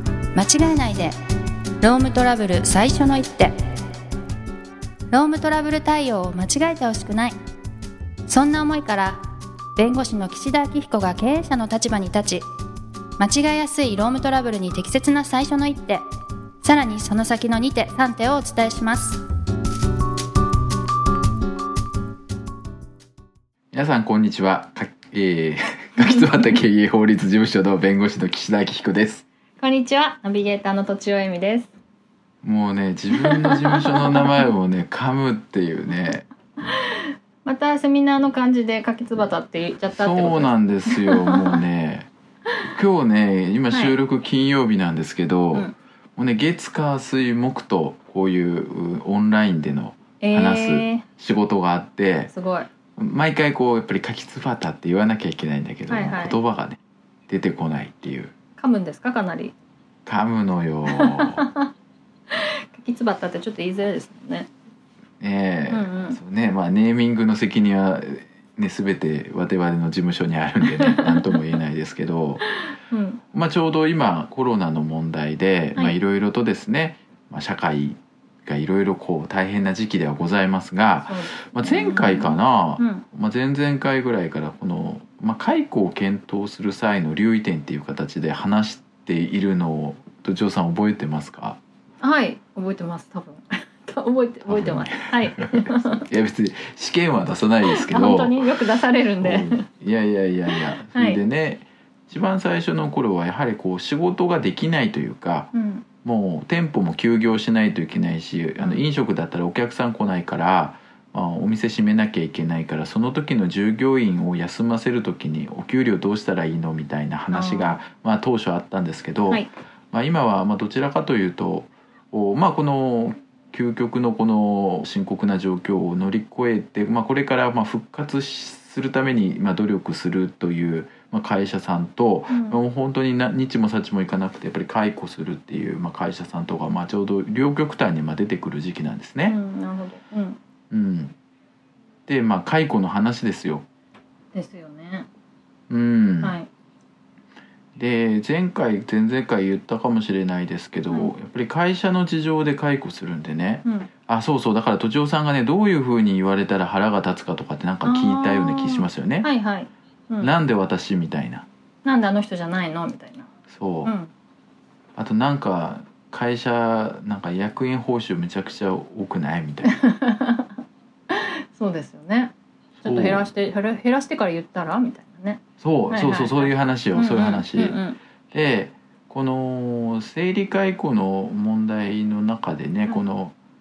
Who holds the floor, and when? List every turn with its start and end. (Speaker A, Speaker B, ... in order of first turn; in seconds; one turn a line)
Speaker A: 0.3-1.1
Speaker A: 1.8-3.5
Speaker A: 5.1-7.4
Speaker A: 8.3-9.2
Speaker A: 9.8-12.5
Speaker A: 13.2-16.1
Speaker A: 16.6-19.2
Speaker B: 23.7-29.2
Speaker A: 26.0-26.3
Speaker A: 29.6-31.7
Speaker B: 32.4-36.3
Speaker A: 33.1-34.5
Speaker A: 37.4-41.6
Speaker B: 39.9-42.1
Speaker B: 42.8-52.3
Speaker A: 43.7-44.0
Speaker A: 50.2-51.0
Speaker A: 52.3-52.7
Speaker B: 53.0-58.3
Speaker A: 55.9-56.4
Speaker A: 58.6-59.5
Speaker B: 60.1-61.4
Speaker A: 60.9-61.7
Speaker A: 62.3-64.5
Speaker B: 65.2-72.4
Speaker A: 65.7-66.2
Speaker A: 70.6-71.4
Speaker A: 72.9-73.2
Speaker B: 73.3-91.6
Speaker A: 81.1-83.0
Speaker A: 92.0-96.1
Speaker B: 94.5-98.4
Speaker A: 97.7-99.7
Speaker B: 99.2-105.5
Speaker A: 100.5-101.2
Speaker A: 105.5-105.8
Speaker B: 106.0-139.4
Speaker A: 117.3-117.8
Speaker A: 132.3-132.6
Speaker A: 139.3-140.4
Speaker B: 140.7-141.2
Speaker B: 142.1-143.7
Speaker A: 144.3-145.1
Speaker B: 145.7-146.4
Speaker A: 146.2-146.5
Speaker B: 147.8-159.3
Speaker A: 157.8-160.3
Speaker B: 160.2-161.5
Speaker A: 161.8-163.3
Speaker B: 163.5-163.9
Speaker A: 163.8-164.1
Speaker B: 165.0-169.8
Speaker A: 169.6-170.6
Speaker A: 171.1-172.3
Speaker B: 172.8-173.2
Speaker A: 172.8-178.0
Speaker B: 175.6-177.8
Speaker B: 178.3-183.3